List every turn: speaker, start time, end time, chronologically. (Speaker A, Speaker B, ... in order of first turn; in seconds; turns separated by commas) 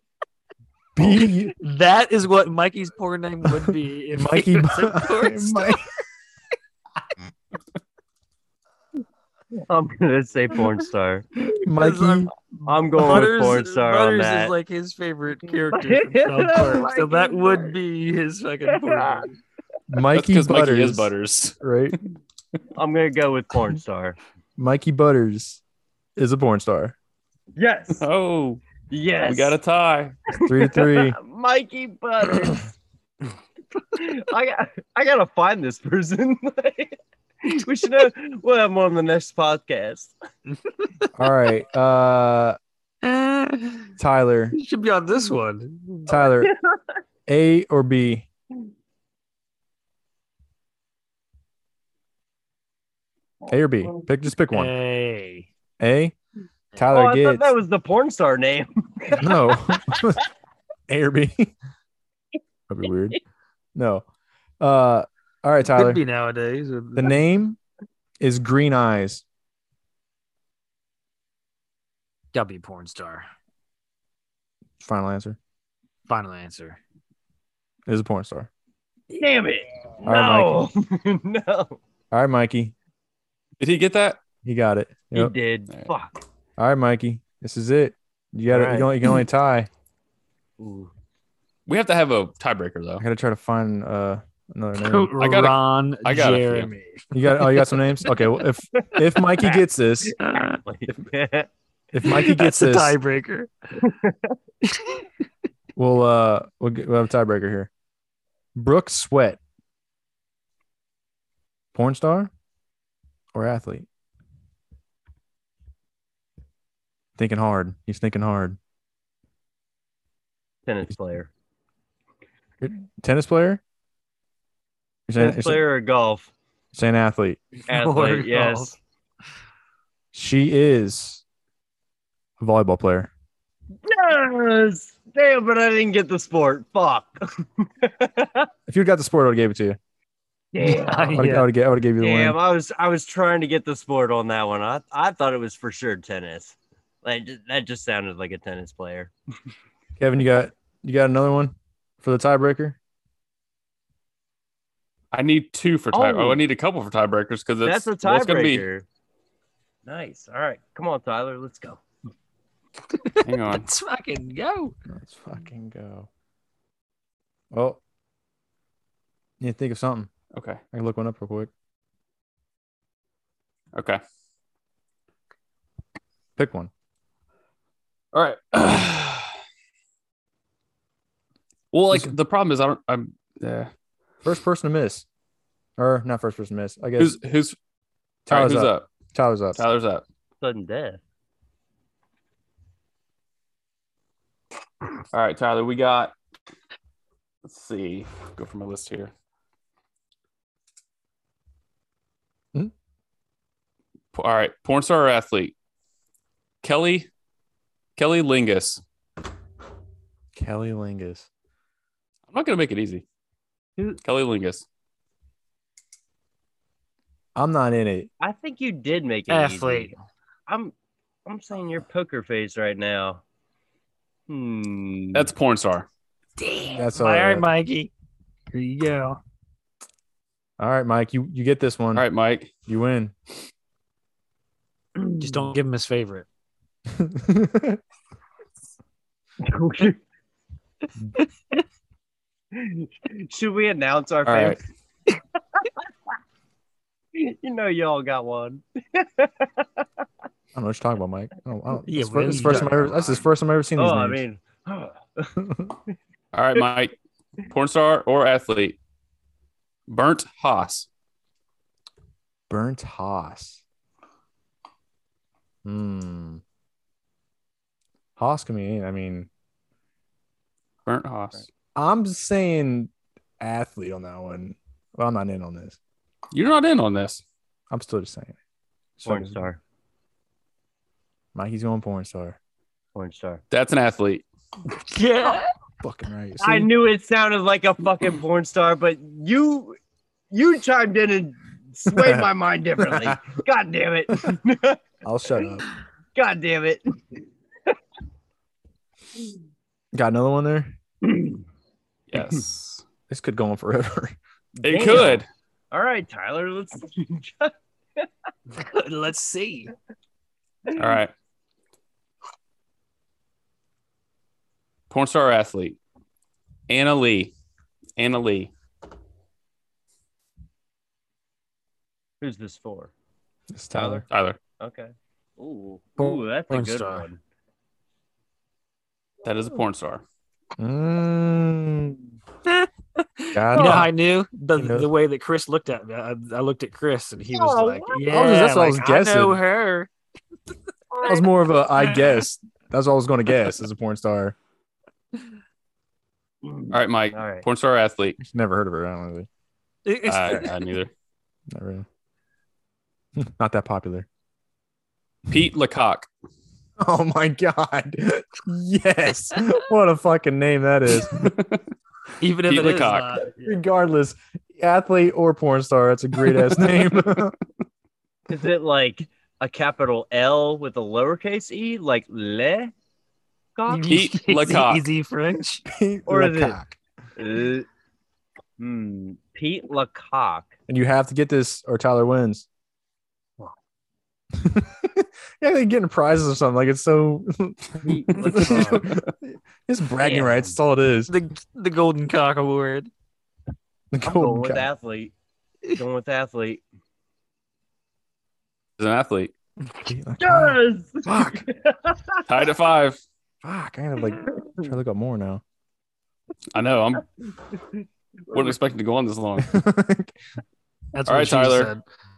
Speaker A: 1.0-1.5, Speaker B: 1.1-5.8, Speaker A: 4.1-5.8, Speaker C: 9.7-11.3, Speaker A: 11.6-12.4, Speaker B: 11.8-12.3, Speaker C: 12.7-14.5, Speaker A: 12.9-13.6, Speaker B: 13.0-19.3, Speaker C: 15.7-17.7, Speaker C: 18.7-19.3, Speaker A: 19.9-22.0, Speaker D: 20.1-21.6, Speaker C: 22.8-24.2, Speaker A: 24.6-25.6, Speaker A: 26.2-26.9, Speaker C: 27.6-28.1, Speaker D: 28.0-28.6, Speaker C: 28.9-29.6, Speaker D: 29.2-30.2, Speaker C: 30.3-32.7, Speaker A: 30.4-31.2, Speaker C: 33.9-40.1, Speaker B: 40.7-41.1, Speaker A: 41.1-42.6, Speaker B: 43.0-43.9, Speaker A: 44.0-44.6, Speaker B: 44.6-46.1, Speaker A: 46.1-46.5, Speaker C: 46.1-46.8, Speaker A: 47.3-48.3, Speaker A: 53.5-54.7, Speaker B: 54.5-55.5, Speaker A: 55.8-56.2, Speaker A: 56.8-57.5, Speaker C: 56.9-60.1, Speaker A: 59.2-60.2, Speaker A: 60.9-61.5, Speaker A: 62.7-63.2, Speaker A: 63.8-64.0, Speaker A: 64.6-66.0, Speaker B: 65.7-67.1, Speaker A: 67.0-67.6, Speaker A: 68.2-69.2, Speaker B: 72.3-73.3, Speaker A: 74.8-75.4, Speaker B: 76.1-76.8, Speaker A: 77.9-78.5, Speaker C: 79.1-81.8, Speaker A: 80.0-80.7, Speaker A: 82.1-82.7, Speaker D: 83.6-84.2, Speaker A: 84.4-85.3, Speaker C: 85.1-86.2, Speaker A: 86.6-89.7, Speaker C: 88.5-89.2, Speaker C: 90.6-90.9, Speaker D: 91.7-93.0, Speaker A: 93.0-95.2, Speaker B: 94.8-97.8, Speaker D: 95.2-96.7, Speaker A: 97.1-100.2, Speaker B: 100.2-100.6, Speaker C: 100.3-101.5, Speaker A: 101.9-103.0, Speaker B: 102.1-103.5, Speaker C: 103.9-104.3, Speaker B: 104.8-105.0, Speaker A: 105.8-107.7, Speaker A: 108.5-109.4, Speaker A: 111.7-112.3, Speaker A: 113.3-113.9, Speaker A: 117.2-118.6, Speaker C: 120.7-121.3, Speaker A: 122.6-123.6, Speaker A: 125.1-125.6, Speaker C: 125.2-126.3, Speaker A: 126.7-127.4, Speaker B: 127.7-128.8, Speaker C: 127.7-128.8, Speaker A: 130.1-131.2, Speaker A: 132.4-133.1, Speaker C: 133.8-138.5, Speaker A: 138.7-139.8, Speaker C: 140.5-141.4, Speaker B: 140.6-141.5, Speaker A: 141.1-142.4, Speaker C: 142.0-149.1, Speaker A: 150.0-152.8, Speaker D: 155.1-158.7, Speaker C: 155.9-156.4, Speaker C: 157.6-158.8, Speaker C: 159.8-161.8, Speaker B: 162.9-164.8, Speaker D: 163.2-163.7, Speaker A: 164.9-166.1, Speaker A: 167.5-167.8, Speaker A: 169.4-170.1, Speaker D: 170.3-170.6, Speaker A: 170.7-171.5, Speaker D: 173.7-174.0, Speaker A: 176.4-176.7, Speaker D: 178.1-179.3, Speaker D: 181.7-183.7, Speaker A: 184.2-185.1, Speaker A: 185.8-187.2, Speaker D: 187.0-187.6, Speaker D: 188.3-188.9, Speaker A: 188.3-189.6, Speaker D: 189.6-190.0, Speaker C: 190.4-191.0, Speaker D: 195.1-196.2, Speaker D: 197.4-199.1, Speaker D: 204.1-205.6, Speaker D: 206.6-207.1, Speaker D: 208.0-208.8, Speaker A: 210.3-211.3, Speaker D: 212.3-213.1, Speaker D: 214.0-214.7, Speaker A: 217.4-218.1, Speaker C: 218.2-220.0, Speaker B: 219.3-219.9, Speaker C: 220.5-220.7, Speaker C: 221.3-223.2, Speaker C: 224.3-225.3, Speaker D: 225.1-225.9, Speaker B: 226.4-227.9, Speaker A: 226.7-227.5, Speaker B: 228.5-229.2, Speaker A: 230.6-232.1, Speaker D: 231.9-232.5, Speaker A: 232.7-233.1, Speaker B: 235.2-236.3, Speaker A: 236.9-237.8, Speaker C: 239.4-240.0, Speaker C: 242.5-244.6, Speaker D: 244.2-244.6, Speaker C: 247.2-249.8, Speaker A: 250.5-254.2, Speaker B: 251.9-253.2, Speaker C: 253.8-255.4, Speaker A: 255.4-255.7, Speaker D: 256.3-256.9, Speaker D: 257.5-258.8, Speaker D: 259.9-260.9, Speaker A: 262.5-263.6, Speaker A: 265.6-266.4, Speaker A: 268.2-269.3, Speaker D: 270.9-271.5, Speaker A: 271.8-275.8, Speaker D: 276.3-277.2, Speaker A: 277.7-278.4, Speaker A: 279.0-279.4, Speaker C: 279.1-279.6, Speaker A: 281.3-282.4, Speaker C: 282.9-283.4, Speaker D: 283.5-284.2, Speaker B: 284.7-285.5, Speaker A: 285.8-286.7, Speaker C: 286.4-289.8, Speaker C: 290.3-294.8, Speaker A: 291.9-292.3, Speaker A: 292.8-293.2, Speaker A: 295.0-295.6, Speaker C: 296.1-296.8, Speaker A: 299.9-300.8, Speaker C: 301.0-301.4, Speaker D: 302.1-302.8, Speaker A: 303.1-304.2, Speaker C: 304.6-308.1, Speaker D: 304.6-305.3, Speaker B: 308.6-309.7, Speaker D: 310.8-311.1, Speaker D: 314.9-315.8, Speaker D: 316.7-317.3, Speaker D: 318.0-318.5, Speaker C: 322.2-322.9, Speaker A: 323.5-324.0, Speaker C: 323.7-324.1, Speaker D: 324.1-324.4, Speaker C: 324.6-327.2, Speaker B: 326.0-327.1, Speaker D: 329.2-330.0, Speaker A: 330.6-332.0, Speaker B: 332.5-339.9, Speaker A: 333.3-333.9, Speaker C: 333.6-333.9, Speaker A: 334.6-334.9, Speaker C: 337.3-338.1, Speaker A: 338.1-339.4, Speaker C: 340.9-341.3, Speaker A: 341.1-344.4, Speaker C: 346.4-347.4, Speaker D: 346.7-348.2, Speaker A: 348.2-349.3, Speaker B: 349.9-350.7, Speaker D: 350.1-350.9, Speaker A: 351.5-351.9, Speaker A: 353.2-354.1, Speaker D: 355.3-356.1, Speaker A: 356.8-361.4, Speaker D: 361.2-361.6, Speaker B: 362.2-363.4, Speaker D: 362.4-363.2, Speaker A: 363.3-367.4, Speaker C: 368.3-372.7, Speaker C: 373.6-374.0, Speaker B: 373.7-375.6, Speaker D: 373.9-374.9, Speaker A: 375.7-376.8, Speaker C: 376.1-376.6, Speaker C: 377.2-377.7, Speaker C: 378.6-380.5, Speaker A: 380.7-382.5, Speaker A: 384.3-391.1, Speaker C: 387.8-388.9, Speaker C: 390.0-390.6, Speaker B: 391.1-392.9, Speaker A: 393.9-394.7, Speaker C: 394.0-395.1, Speaker C: 395.7-396.6, Speaker D: 398.8-399.3, Speaker A: 399.8-401.5, Speaker C: 400.2-402.2, Speaker D: 402.3-403.0, Speaker A: 403.4-405.4, Speaker C: 404.4-404.7, Speaker D: 406.5-407.1, Speaker C: 407.6-408.6, Speaker D: 408.3-409.6, Speaker A: 409.4-410.1, Speaker B: 410.9-411.8, Speaker D: 411.1-411.7